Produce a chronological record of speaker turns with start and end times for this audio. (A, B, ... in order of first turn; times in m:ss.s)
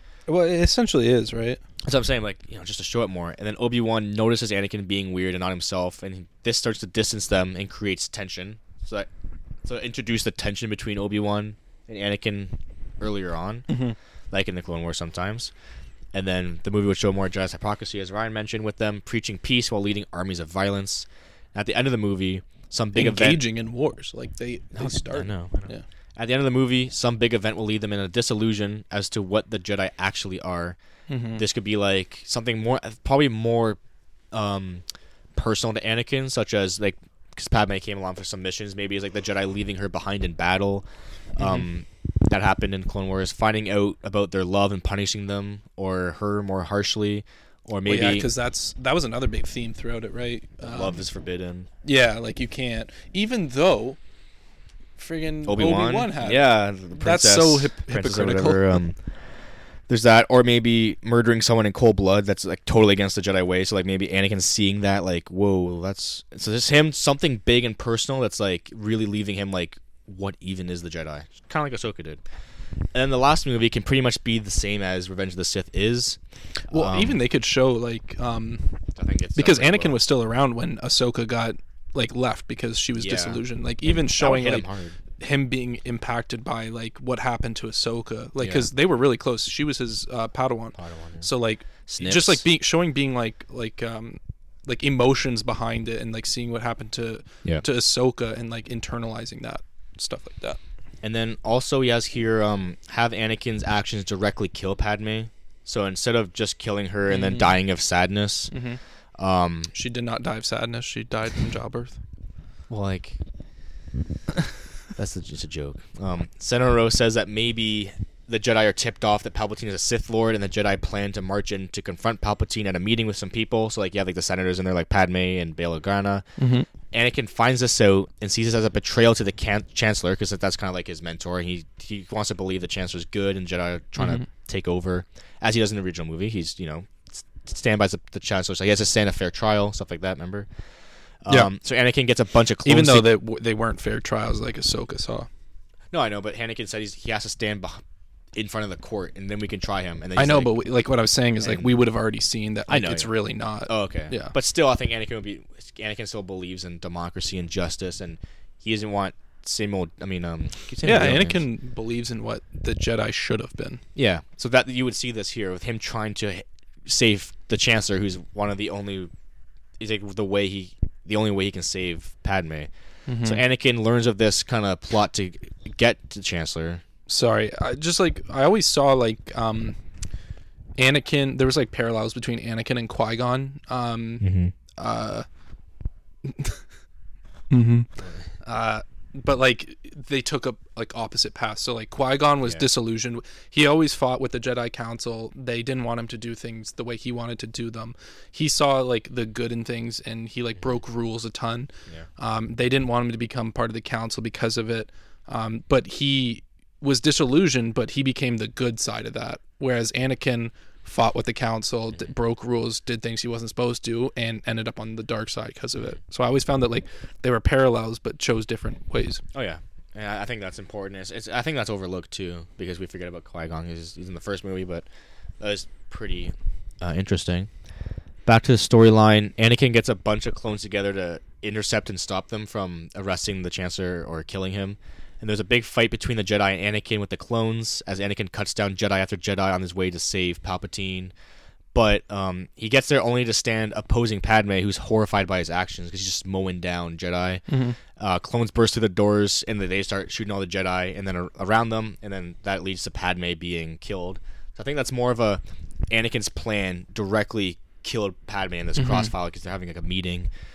0:00.3-0:01.6 A
0:01.8-0:09.1 B
0:09.6-0:13.7 B
0:13.7-0:14.0 A
0:14.3-0:15.5 B
0:16.1-0:23.4 B
0:23.0-0:25.8 A
0:24.7-0:30.8 B
0:31.1-0:31.4 A
0:31.4-0:33.8 B
0:34.3-0:34.8 B
0:35.4-0:48.3 B
0:41.4-0:41.7 A
0:47.9-0:51.0 A
0:50.6-0:51.7 B
0:51.8-0:54.0 A
0:55.0-0:58.8 A
0:55.5-0:59.0 B
0:59.9-1:12.2 B
1:12.9-1:16.2 B
1:16.7-1:17.2 B
1:16.7-1:18.8 A
1:19.0-1:20.0 B
1:19.4-1:24.7 A
1:23.0-1:25.0 B
1:25.2-1:40.6 A
1:28.4-1:28.7 B
1:30.8-1:31.3 B
1:31.9-1:32.4 B
1:41.0-1:48.5 B
1:47.1-1:47.6 A
1:48.5-1:48.8 A
1:49.2-1:49.7 B
1:49.7-1:52.0 A
1:52.7-1:53.2 B
1:55.0-2:06.3 B
2:06.4-2:06.7 A
2:06.9-2:20.5 B
2:14.0-2:14.3 A
2:21.2-2:23.1 B
2:22.6-2:25.3 A
2:25.9-2:27.8 B
2:28.3-2:30.6 B
2:30.2-2:34.3 A
2:31.4-2:31.8 B
2:32.7-2:33.2 B
2:33.7-2:41.4 B
2:40.8-2:43.8 A
2:44.0-2:49.1 B
2:49.8-2:52.7 B
2:53.1-2:53.4 A
2:53.2-2:56.8 B
2:57.1-2:59.8 A
3:00.8-3:05.3 A
3:04.2-3:04.5 B
3:06.2-3:06.6 A
3:07.5-3:07.9 A
3:08.4-3:39.2 A
3:39.3-3:44.9 B
3:45.4-3:47.5 B
3:48.3-4:01.1 B
4:01.7-4:20.3 B
4:07.5-4:07.8 A
4:18.8-4:19.1 A